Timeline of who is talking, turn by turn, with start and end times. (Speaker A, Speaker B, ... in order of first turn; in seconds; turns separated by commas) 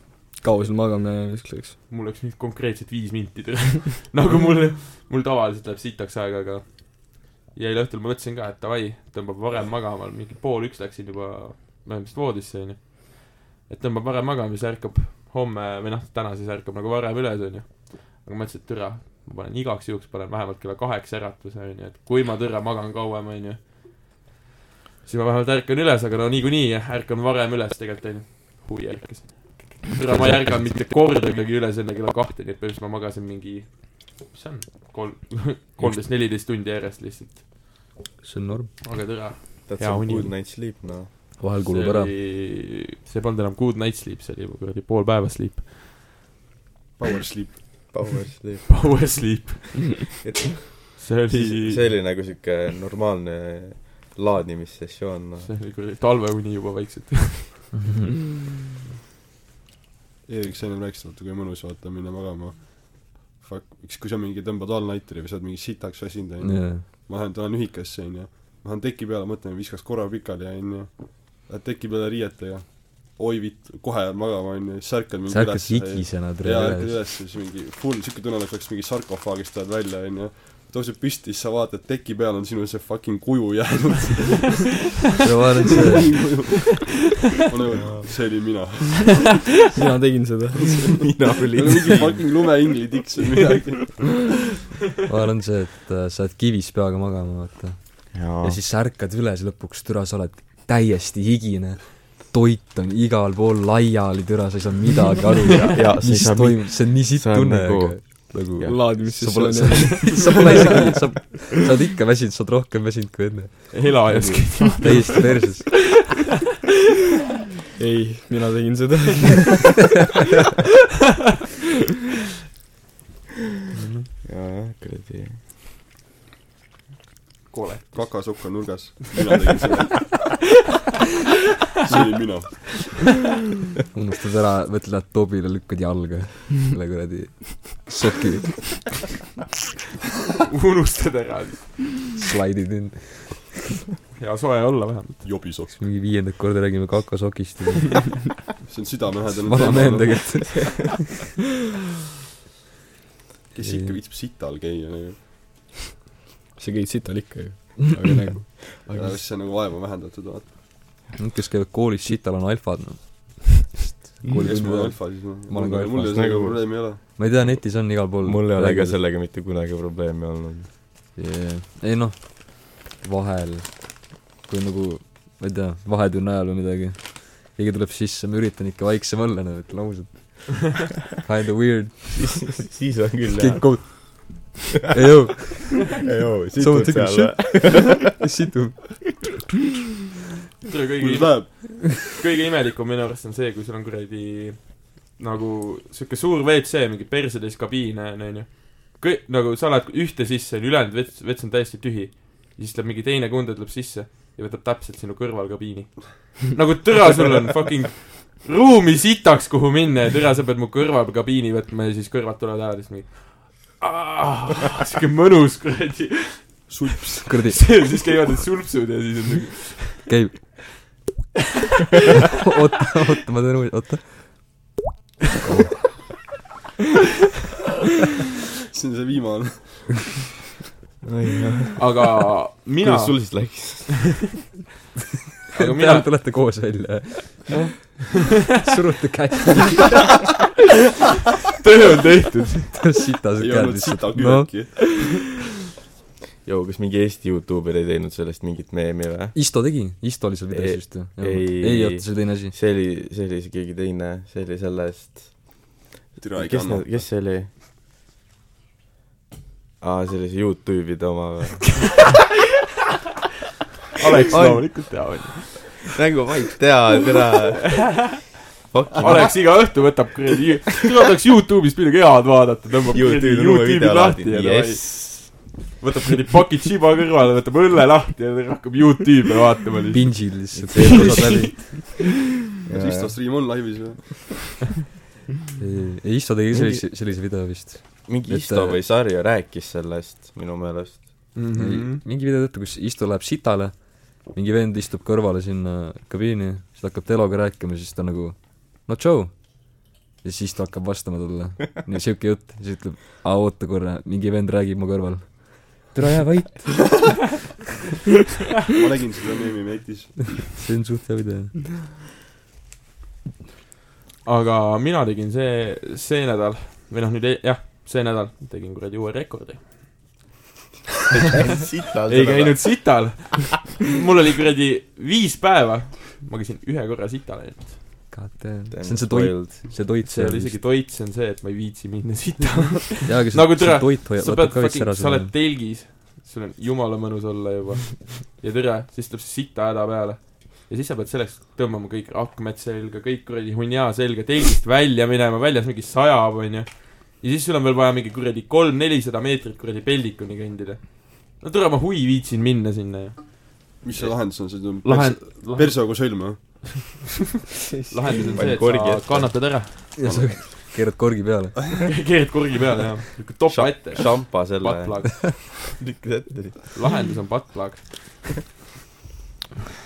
Speaker A: 0.4-1.8, Speaker B: 1.9-24.0, Speaker B: 25.0-37.5, Speaker C: 30.1-30.8, Speaker C: 35.8-36.0, Speaker C: 38.2-38.8, Speaker B: 38.8-40.3, Speaker D: 39.6-41.1, Speaker C: 41.4-42.1, Speaker B: 41.6-45.8, Speaker E: 47.0-47.9, Speaker D: 47.9-49.2, Speaker B: 48.7-50.2, Speaker D: 50.2-55.5, Speaker B: 50.9-52.2, Speaker B: 55.4-57.7, Speaker C: 57.7-58.1, Speaker E: 60.2-84.8, Speaker C: 66.4-66.8, Speaker C: 75.3-77.0, Speaker C: 85.2-86.3, Speaker E: 85.9-89.4, Speaker D: 87.7-88.1, Speaker A: 89.7-91.1, Speaker D: 90.9-92.3, Speaker E: 91.5-94.3, Speaker C: 95.0-115.9, Speaker D: 98.1-98.6, Speaker D: 105.5-109.5, Speaker A: 108.6-111.0, Speaker B: 113.7-115.6, Speaker D: 114.1-114.4, Speaker A: 117.8-119.7, Speaker C: 123.7-124.1, Speaker D: 124.2-125.4, Speaker B: 127.5-128.7, Speaker E: 127.9-130.2, Speaker E: 131.8-133.0, Speaker C: 133.9-139.0, Speaker B: 140.5-141.8, Speaker C: 142.2-143.5, Speaker B: 144.1-145.3, Speaker E: 145.2-145.8, Speaker C: 145.7-148.2, Speaker E: 148.6-150.4, Speaker C: 149.4-151.0, Speaker E: 153.5-155.7, Speaker C: 153.6-154.0, Speaker A: 156.6-158.6, Speaker C: 158.1-158.4, Speaker E: 158.7-160.5, Speaker C: 161.2-169.0, Speaker E: 164.4-167.0, Speaker D: 166.1-166.6, Speaker D: 167.5-170.7, Speaker C: 171.2-182.6, Speaker D: 182.2-184.2, Speaker C: 183.3-189.2, Speaker D: 186.0-188.0, Speaker B: 190.7-220.0, Speaker E: 191.0-191.5, Speaker E: 216.7-217.3, Speaker C: 217.2-217.8, Speaker C: 220.1-220.9, Speaker C: 222.4-224.7, Speaker C: 225.4-225.9, Speaker E: 228.7-230.2, Speaker D: 231.0-232.1, Speaker B: 231.8-233.8, Speaker D: 232.8-234.3, Speaker B: 235.5-236.1, Speaker C: 235.5-237.7, Speaker C: 238.6-240.1, Speaker B: 241.6-242.8, Speaker C: 242.7-244.7, Speaker E: 243.4-245.0, Speaker D: 246.4-249.3, Speaker C: 249.3-252.5, Speaker D: 250.5-257.5, Speaker E: 256.2-257.1, Speaker D: 259.8-261.9, Speaker B: 261.8-262.2, Speaker B: 264.0-265.8, Speaker D: 264.3-270.0, Speaker B: 267.8-268.2, Speaker B: 269.0-281.8, Speaker D: 272.9-275.4, Speaker C: 279.9-281.8, Speaker D: 280.6-281.5, Speaker D: 282.6-283.3, Speaker E: 282.7-284.6, Speaker C: 285.6-288.8, Speaker D: 286.5-286.9, Speaker D: 288.1-291.3, Speaker B: 291.3-292.0, Speaker C: 291.5-307.2, Speaker E: 308.7-310.4, Speaker C: 310.5-311.8, Speaker B: 314.2-320.1, Speaker D: 321.1-323.1, Speaker B: 322.1-327.8, Speaker C: 328.1-330.6, Speaker D: 328.7-329.6, Speaker B: 330.0-353.4, Speaker C: 333.1-335.3, Speaker E: 353.8-357.0, Speaker B: 354.8-356.5, Speaker B: 357.9-359.8, Speaker D: 358.3-359.4, Speaker C: 359.9-361.6, Speaker E: 360.0-360.5, Speaker B: 361.9-365.6, Speaker D: 363.4-366.7, Speaker B: 366.7-368.3